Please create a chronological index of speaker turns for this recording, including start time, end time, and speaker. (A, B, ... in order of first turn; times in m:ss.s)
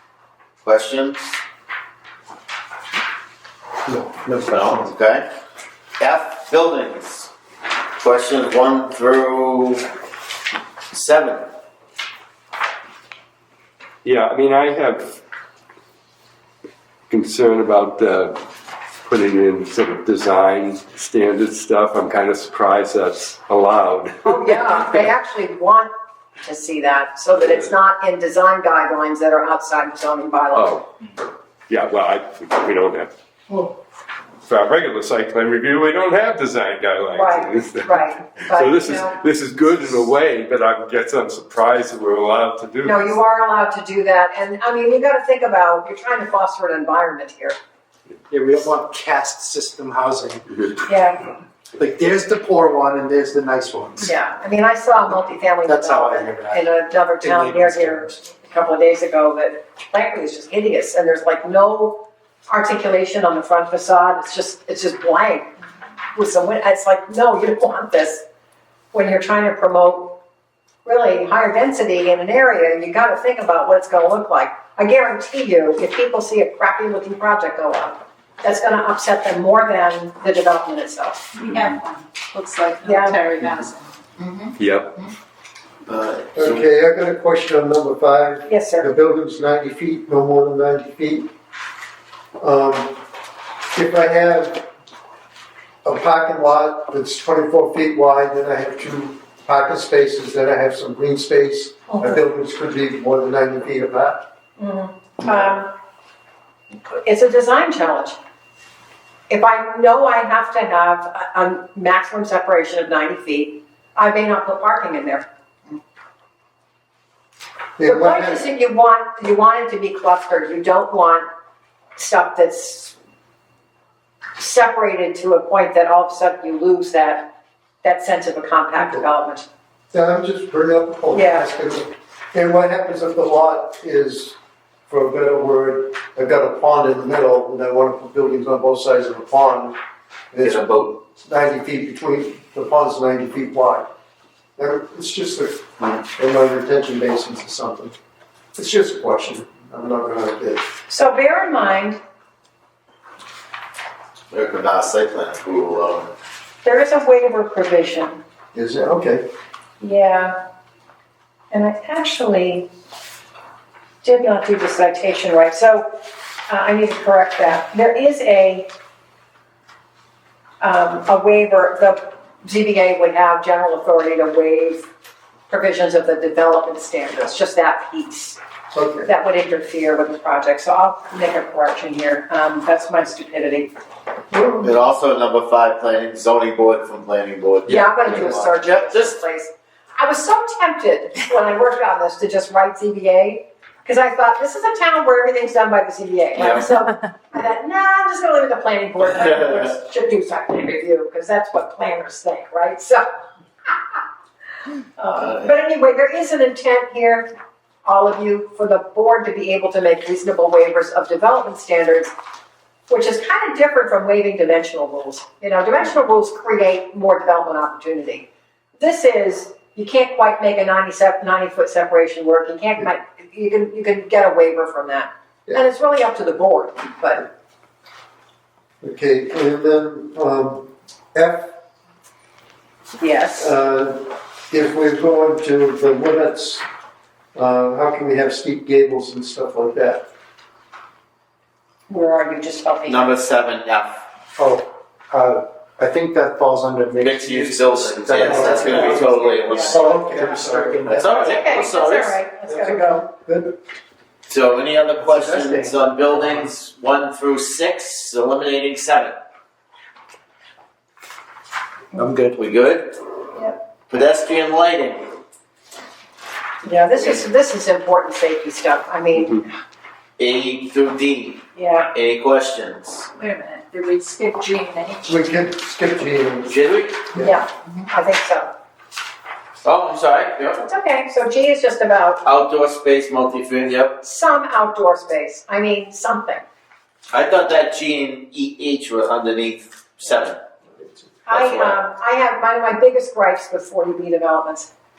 0:00.6-0:01.2 A
0:03.9-0:04.2 B
0:04.4-0:05.3 A
0:06.0-0:07.3 A
0:08.0-0:09.8 A
0:10.9-0:11.5 A
0:14.0-0:15.2 C
0:17.1-0:18.4 C
0:19.0-0:24.7 C
0:24.2-0:30.8 D
0:30.5-0:30.8 C
0:31.7-0:33.1 C
0:34.5-0:43.2 C
0:37.1-0:39.2 D
0:42.8-0:47.6 D
0:48.3-0:50.7 E
0:50.9-0:51.2 D
0:51.8-0:54.1 E
0:54.0-1:05.5 D
0:55.6-0:56.6 E
0:57.2-0:58.2 E
1:06.1-1:08.2 D
1:08.9-1:10.2 D
1:10.8-1:21.3 D
1:21.4-1:24.5 F
1:22.8-1:23.2 D
1:24.6-1:25.0 C
1:25.9-1:26.6 A
1:26.4-1:31.3 B
1:28.5-1:28.9 D
1:32.4-1:33.0 B
1:33.7-1:34.7 B
1:35.8-1:44.2 B
1:41.9-1:42.2 D
1:44.6-1:45.7 D
1:46.7-1:48.2 D
1:49.3-1:55.2 D
1:57.8-1:58.4 B
1:57.8-2:01.2 D
2:02.0-2:02.9 D
2:04.4-2:09.5 D
2:09.9-2:14.4 B
2:11.1-2:11.5 D
2:14.9-2:19.8 B
2:20.3-2:23.9 B
2:20.4-2:20.9 A
2:24.6-2:27.9 B
2:28.6-2:30.6 B
2:30.9-2:32.0 D
2:34.3-2:36.1 A
2:36.6-2:38.2 D
2:38.5-2:39.3 B
2:39.8-2:40.4 D
2:41.5-2:42.7 D
2:44.0-2:45.9 D
2:46.5-2:48.7 D
2:50.6-2:54.9 D
2:55.5-2:58.4 D
2:58.7-2:59.1 B
2:59.0-3:03.7 D
3:04.3-3:04.7 B
3:04.6-3:09.2 A
3:07.7-3:23.0 D
3:25.0-3:27.3 D
3:25.2-3:25.5 A
3:27.8-3:32.1 D
3:32.9-3:47.3 D
3:48.8-3:51.5 B
3:53.0-3:53.5 D
3:53.4-3:56.6 B
3:57.3-4:00.1 B
4:01.9-4:03.1 D
4:02.8-4:04.0 A
4:04.4-4:11.4 E
4:07.0-4:10.0 A
4:08.2-4:11.3 B
4:09.4-4:09.7 D
4:10.8-4:12.2 A
4:11.2-4:13.1 D
4:12.5-4:13.5 B
4:14.3-4:19.2 A
4:15.0-4:16.4 E
4:21.9-4:22.4 E
4:22.3-4:23.0 A
4:23.9-4:25.0 A
4:26.6-4:29.5 D
4:30.2-4:33.1 A
4:31.6-4:31.9 D
4:33.2-4:35.1 F
4:35.1-4:36.5 B
4:36.4-4:37.0 A
4:37.2-4:38.5 D
4:39.6-4:40.6 A
4:40.6-4:42.2 D
4:42.2-4:44.0 A
4:44.0-4:46.4 D
4:47.1-4:50.4 A
4:51.3-4:54.7 D
4:51.3-4:51.8 A